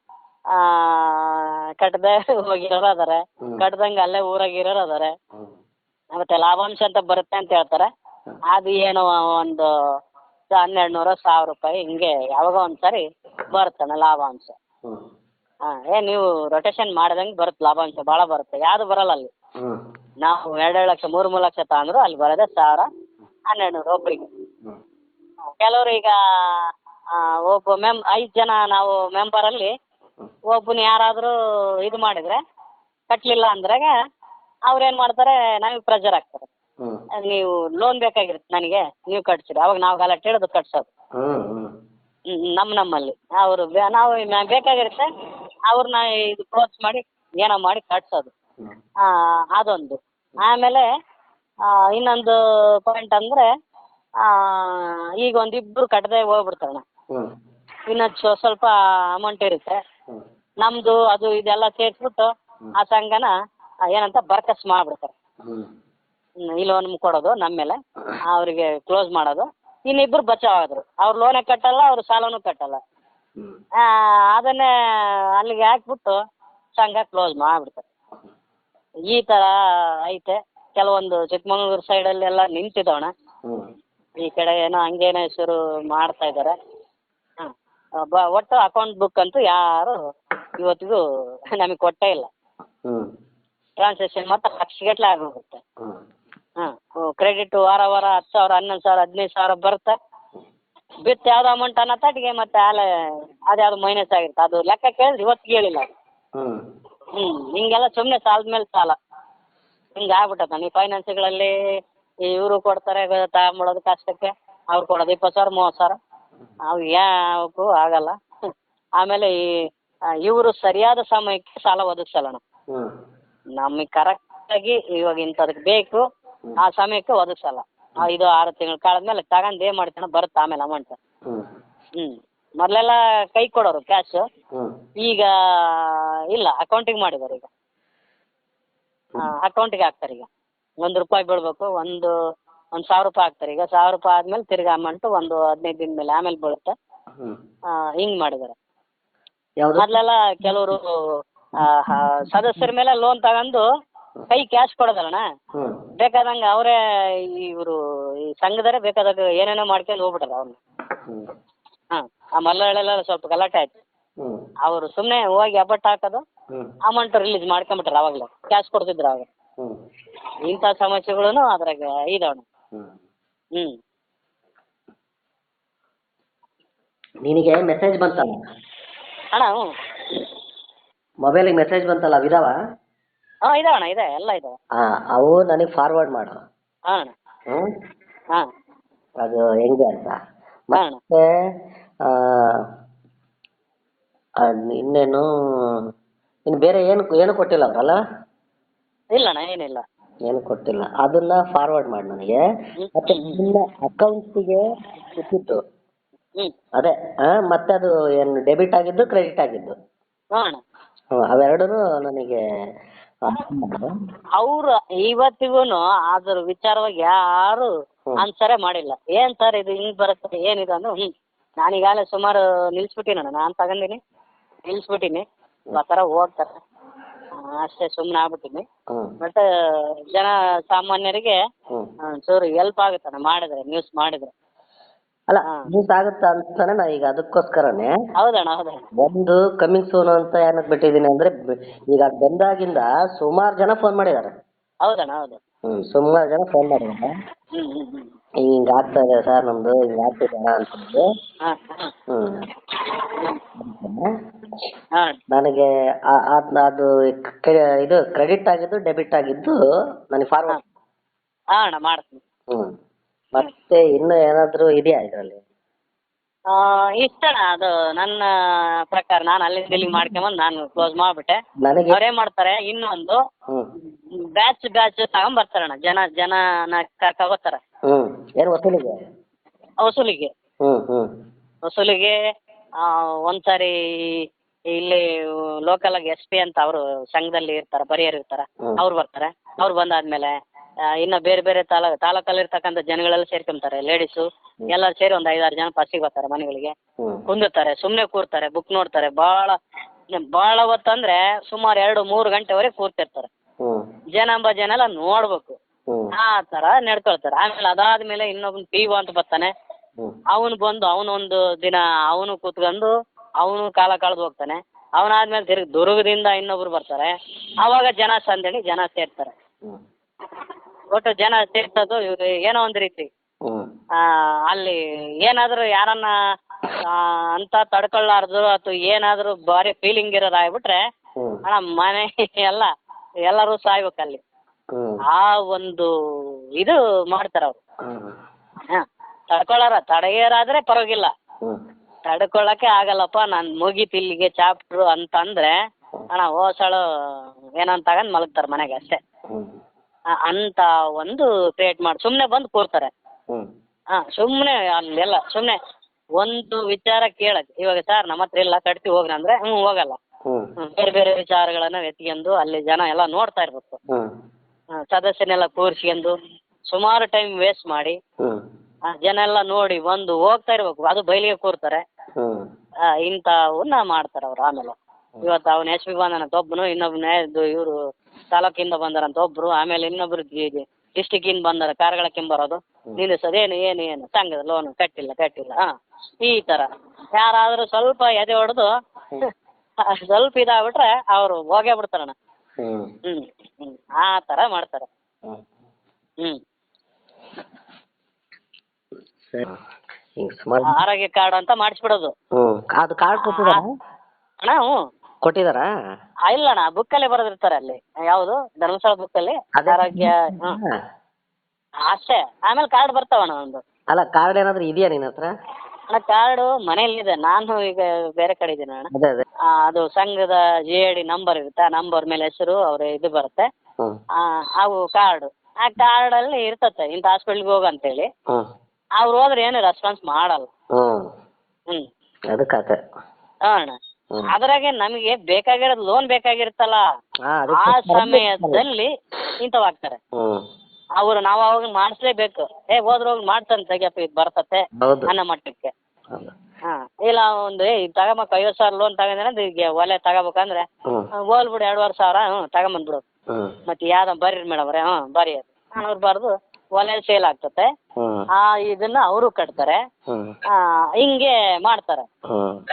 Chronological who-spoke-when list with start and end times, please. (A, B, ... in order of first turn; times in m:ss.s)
0:00.5-0:05.1 A
0:06.1-0:07.9 A
0:08.5-0:09.7 A
0:10.5-0:14.5 A
0:15.7-0:19.3 A
0:20.2-0:22.9 A
0:23.5-0:24.3 A
0:25.6-0:29.7 A
0:30.5-0:32.4 A
0:33.1-0:33.9 A
0:34.7-0:36.5 A
0:37.2-0:40.9 A
0:41.2-0:41.7 B
0:42.3-0:45.1 A
0:45.7-0:48.3 A
0:49.0-0:50.9 A
0:51.7-0:53.4 A
0:54.2-0:56.8 A
0:57.9-0:59.8 A
1:00.6-1:03.3 A
1:03.9-1:05.1 A
1:05.4-1:05.7 B
1:06.5-1:07.8 A
1:08.3-1:12.8 A
1:13.8-1:16.2 A
1:16.8-1:17.9 A
1:19.1-1:19.5 A
1:20.0-1:23.1 A
1:24.2-1:26.5 A
1:28.0-1:30.0 A
1:30.6-1:31.0 A
1:31.6-1:32.3 A
1:33.8-1:35.6 A
1:36.6-1:40.0 A
1:41.0-1:42.9 A
1:43.5-1:45.9 A
1:46.4-1:46.6 B
1:47.1-1:49.0 A
1:50.0-1:51.5 A
1:52.2-1:56.0 A
1:56.7-1:58.1 A
1:59.0-1:59.6 A
2:00.2-2:02.4 A
2:03.6-2:06.0 A
2:06.6-2:11.0 A
2:11.2-2:11.5 B
2:12.0-2:14.2 A
2:15.0-2:17.5 A
2:19.2-2:20.3 A
2:20.8-2:22.1 A
2:22.8-2:26.7 A
2:27.7-2:28.5 A
2:29.6-2:29.9 B
2:29.8-2:30.9 A
2:31.6-2:33.6 A
2:34.3-2:35.2 A
2:35.6-2:35.8 B
2:36.0-2:36.8 A
2:37.3-2:37.8 A
2:38.4-2:40.6 A
2:41.0-2:41.3 B
2:41.9-2:43.8 A
2:44.6-2:46.2 A
2:46.8-2:49.2 A
2:50.5-2:52.4 A
2:57.2-2:58.4 B
2:59.3-2:59.7 A
3:01.2-3:02.6 B
3:03.5-3:04.5 A
3:04.8-3:06.4 B
3:09.2-3:10.2 B
3:10.7-3:11.2 B
3:10.7-3:11.0 A
3:12.0-3:12.6 B
3:14.4-3:15.9 B
3:16.5-3:18.0 B
3:19.1-3:19.8 A
3:20.2-3:22.4 B
3:22.8-3:23.4 A
3:23.0-3:24.6 B
3:25.1-3:25.6 B
3:26.8-3:29.7 B
3:30.3-3:30.6 A
3:31.1-3:32.4 B
3:33.2-3:34.0 B
3:34.4-3:41.1 A
3:41.6-3:44.0 A
3:44.7-3:46.5 A
3:47.4-3:48.6 A
3:50.1-3:51.4 A
3:52.0-3:54.3 A
3:55.3-3:57.9 B
3:58.2-3:58.9 A
3:59.0-4:04.3 B
4:04.8-4:05.4 A
4:05.6-4:07.1 B
4:07.5-4:08.1 A
4:08.4-4:11.0 B
4:11.4-4:11.9 A
4:12.1-4:12.4 B
4:12.8-4:13.4 A
4:13.6-4:14.7 B
4:15.3-4:20.6 B
4:21.5-4:22.2 A
4:22.5-4:22.7 B
4:23.3-4:25.4 B
4:26.5-4:28.3 A
4:28.9-4:33.2 A
4:29.7-4:30.2 B
4:31.6-4:32.0 B
4:34.1-4:37.6 A
4:37.9-4:39.0 B
4:39.8-4:40.3 A
4:40.6-4:41.1 B
4:41.7-4:42.2 A
4:42.8-4:50.3 A
4:51.0-4:56.7 A
4:57.0-4:57.2 B
4:57.3-4:59.6 A
5:00.1-5:03.3 A
5:03.6-5:03.8 B
5:04.1-5:05.6 A
5:05.9-5:06.1 B
5:06.1-5:09.5 A
5:10.3-5:19.3 A
5:20.4-5:23.1 A
5:24.0-5:26.1 A
5:26.8-5:30.8 A
5:31.4-5:32.7 A
5:33.3-5:34.2 A
5:34.7-5:35.0 B
5:35.1-5:35.9 A
5:36.6-5:37.6 A
5:37.8-5:38.2 B
5:38.7-5:41.1 A
5:42.0-5:45.5 A
5:46.1-5:46.8 A
5:47.6-5:49.0 A
5:49.3-5:49.6 B
5:50.2-5:52.9 A
5:54.0-5:55.6 A
5:56.2-6:00.0 A
6:00.3-6:00.5 B
6:00.6-6:03.8 A
6:04.8-6:06.2 A
6:06.7-6:08.0 A
6:08.9-6:11.8 A
6:12.2-6:12.5 B
6:13.0-6:17.8 A
6:18.3-6:25.7 A
6:26.2-6:28.7 A
6:30.0-6:32.1 A
6:32.6-6:32.9 B
6:33.0-6:34.9 A
6:39.2-6:39.6 B
6:40.2-6:40.8 B
6:40.6-6:42.1 A
6:42.4-6:43.6 B
6:43.1-6:43.6 A
6:44.4-6:44.8 A
6:45.2-6:45.7 B
6:46.3-6:50.6 A
6:49.5-6:50.7 B
6:51.9-6:53.6 A
6:53.9-6:55.3 B
6:55.9-6:58.9 A
6:58.9-6:59.2 B
6:59.4-7:03.5 A
7:04.2-7:08.1 A
7:09.0-7:10.5 A
7:10.7-7:11.0 B
7:12.3-7:12.8 B
7:13.5-7:13.8 A
7:14.3-7:16.8 A
7:17.3-7:18.6 B
7:17.5-7:18.9 A
7:19.4-7:20.0 A
7:20.1-7:20.4 B
7:21.0-7:25.7 A
7:24.8-7:25.1 B
7:26.7-7:30.6 A
7:31.3-7:33.0 A
7:33.7-7:37.7 A
7:38.0-7:38.2 B
7:38.4-7:39.8 A
7:40.1-7:40.4 B
7:40.5-7:42.0 A
7:42.3-7:42.6 B